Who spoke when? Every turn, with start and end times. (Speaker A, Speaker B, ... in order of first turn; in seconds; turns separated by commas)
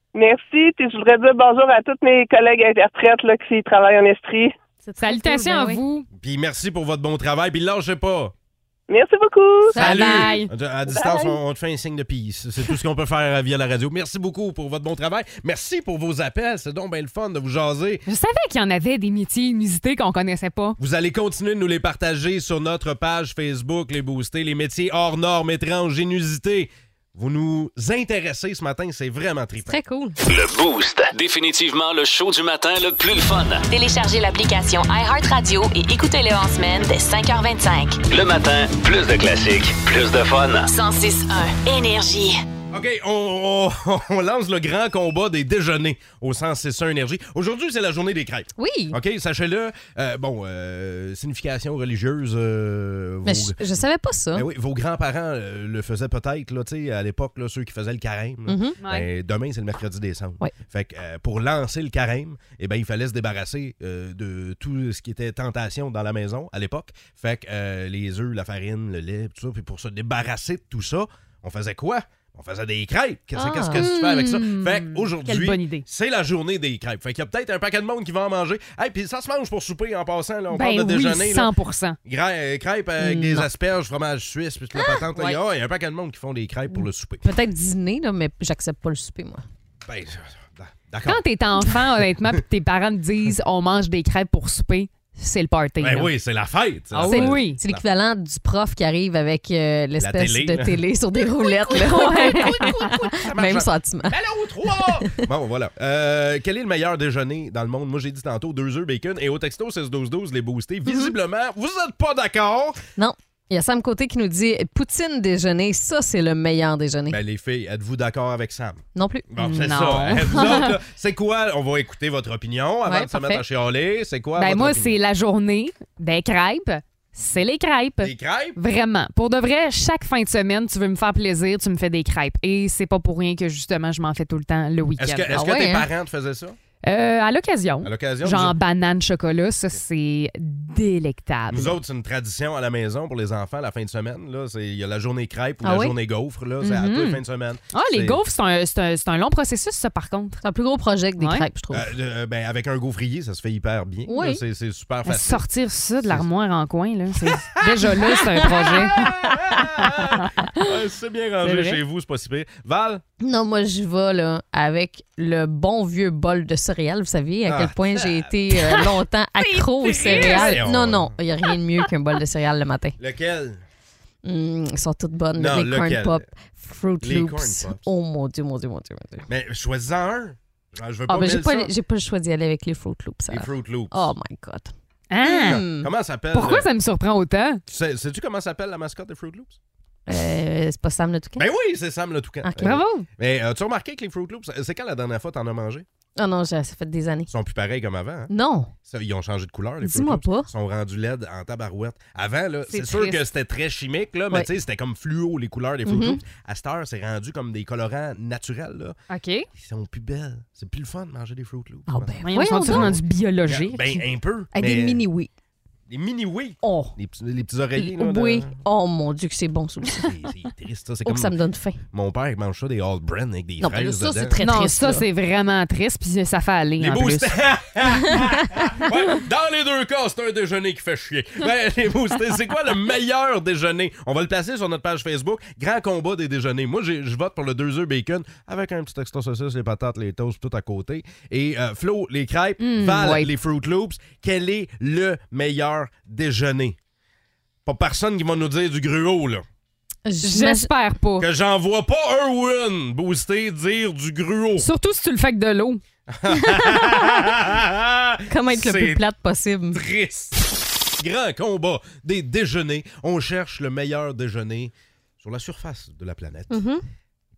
Speaker A: 0.1-4.5, Speaker B: 4.8-5.8, Speaker C: 5.0-6.1, Speaker D: 6.2-8.3, Speaker A: 8.9-9.8, Speaker D: 9.7-18.0, Speaker C: 9.8-10.5, Speaker B: 9.9-10.3, Speaker A: 10.9-11.4, Speaker C: 18.1-20.8, Speaker D: 20.8-29.8, Speaker B: 29.6-30.2, Speaker E: 30.3-33.6, Speaker F: 33.7-38.0, Speaker E: 38.1-40.7, Speaker F: 40.7-42.4, Speaker D: 42.7-53.6, Speaker B: 48.6-49.0, Speaker B: 53.2-54.5, Speaker D: 54.4-81.5, Speaker B: 58.5-58.8, Speaker C: 58.8-59.1, Speaker B: 73.3-73.9, Speaker C: 73.7-75.8, Speaker C: 80.5-82.0, Speaker D: 82.0-87.3, Speaker B: 83.0-83.5, Speaker B: 86.7-89.5, Speaker D: 89.9-91.8, Speaker C: 91.1-96.1, Speaker D: 95.8-97.8, Speaker C: 96.9-97.6, Speaker B: 97.0-105.3, Speaker D: 100.0-112.8, Speaker B: 110.8-111.2, Speaker B: 113.0-117.2, Speaker D: 117.1-125.0, Speaker B: 119.0-119.3, Speaker C: 119.4-120.7, Speaker B: 122.9-123.4, Speaker C: 124.4-135.3, Speaker D: 128.0-128.6, Speaker D: 135.0-136.6, Speaker B: 135.3-135.9, Speaker C: 136.8-141.8, Speaker D: 137.8-138.6, Speaker D: 141.5-148.2, Speaker B: 145.6-145.9, Speaker C: 146.6-147.2, Speaker C: 147.7-150.4, Speaker B: 150.4-151.9, Speaker C: 151.2-151.4, Speaker D: 151.7-155.4, Speaker B: 154.1-154.4, Speaker C: 155.1-159.0, Speaker D: 157.3-163.0, Speaker B: 158.3-159.9, Speaker B: 161.4-161.8, Speaker B: 163.2-173.0, Speaker D: 167.4-168.9, Speaker C: 169.4-170.6, Speaker D: 170.0-171.2, Speaker D: 173.0-173.6, Speaker B: 174.2-179.3, Speaker D: 175.4-176.2, Speaker D: 177.0-177.8, Speaker D: 179.3-181.7, Speaker B: 181.1-185.9, Speaker D: 183.3-184.1, Speaker C: 185.1-185.6, Speaker D: 185.4-186.7, Speaker C: 186.3-187.6, Speaker D: 187.7-189.6, Speaker B: 190.1-191.5, Speaker D: 191.4-195.8, Speaker B: 192.4-192.8, Speaker C: 192.6-193.1, Speaker B: 196.2-197.3, Speaker D: 197.3-198.3, Speaker B: 198.3-198.7, Speaker D: 198.9-209.0, Speaker B: 199.8-200.5, Speaker C: 202.7-203.2, Speaker B: 205.8-206.2, Speaker C: 209.1-209.5, Speaker D: 209.5-215.1, Speaker B: 211.9-213.0, Speaker C: 212.2-214.0, Speaker B: 214.6-215.3, Speaker D: 215.9-218.6, Speaker C: 216.6-216.9, Speaker B: 217.8-220.1, Speaker D: 219.9-221.4, Speaker B: 221.1-221.8, Speaker D: 221.9-224.4, Speaker B: 223.6-225.1, Speaker C: 224.4-227.3, Speaker D: 226.8-246.8, Speaker B: 228.1-228.7, Speaker C: 242.6-243.3, Speaker D: 247.7-249.4, Speaker B: 250.1-250.7, Speaker C: 250.2-251.3, Speaker D: 251.2-254.7, Speaker C: 254.6-255.8, Speaker D: 256.1-259.0, Speaker B: 256.3-257.4, Speaker B: 258.3-259.8, Speaker D: 259.7-260.4, Speaker D: 261.0-266.6, Speaker B: 266.5-266.8